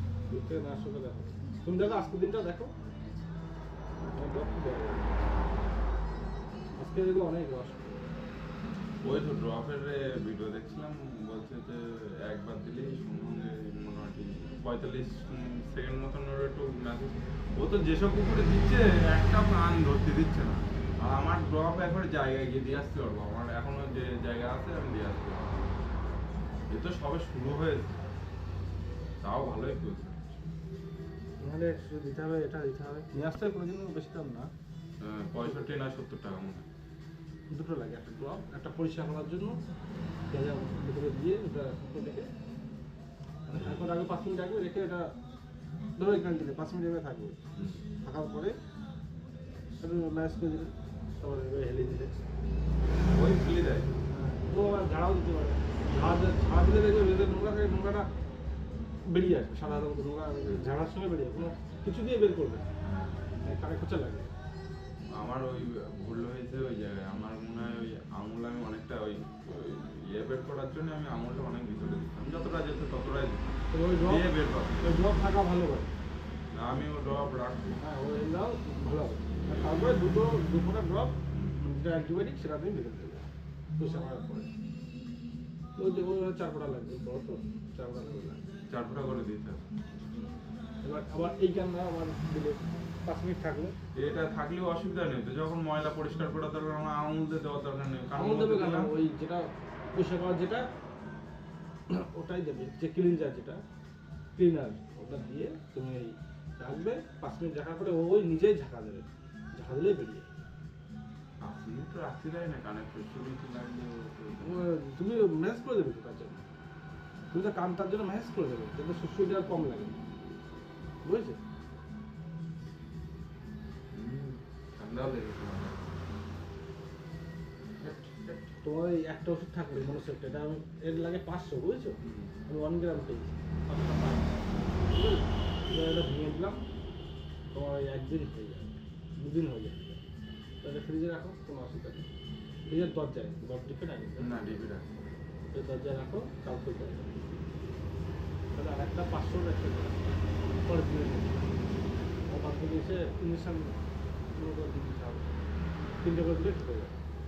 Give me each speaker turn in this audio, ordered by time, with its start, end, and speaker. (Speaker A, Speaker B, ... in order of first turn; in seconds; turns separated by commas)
Speaker A: 0.3-2.7, Speaker A: 4.0-5.3, Speaker A: 6.8-8.1, Speaker B: 9.0-25.8, Speaker B: 26.7-28.0, Speaker B: 29.2-30.4, Speaker A: 31.4-34.5, Speaker B: 35.0-36.6, Speaker A: 37.5-39.5, Speaker A: 40.3-42.3, Speaker A: 43.5-45.1, Speaker B: 43.5-43.8, Speaker A: 46.0-47.4, Speaker B: 47.6-47.8, Speaker A: 48.0-48.5, Speaker A: 49.8-52.1, Speaker B: 53.0-53.9, Speaker A: 54.1-58.1, Speaker A: 59.1-62.6, Speaker B: 62.8-63.2, Speaker A: 63.4-64.3, Speaker B: 65.1-74.8, Speaker A: 73.7-74.3, Speaker A: 74.8-75.9, Speaker B: 76.5-77.8, Speaker A: 77.8-83.3, Speaker B: 81.3-81.6, Speaker A: 83.8-84.5, Speaker A: 85.8-88.4, Speaker B: 88.7-89.6, Speaker A: 90.8-93.7, Speaker B: 93.9-98.9, Speaker A: 98.1-100.7, Speaker A: 101.9-103.6, Speaker A: 104.3-110.4, Speaker B: 111.4-114.6, Speaker A: 114.4-116.4, Speaker A: 117.3-120.0, Speaker A: 121.0-121.4, Speaker B: 123.9-126.0, Speaker B: 127.8-128.4, Speaker A: 128.6-136.6, Speaker B: 132.0-132.3, Speaker A: 137.5-140.0, Speaker A: 140.6-142.1, Speaker A: 142.7-144.5, Speaker B: 144.2-144.9, Speaker A: 145.5-147.2, Speaker A: 148.5-151.7, Speaker A: 152.3-153.8, Speaker A: 154.3-155.3, Speaker A: 156.0-156.9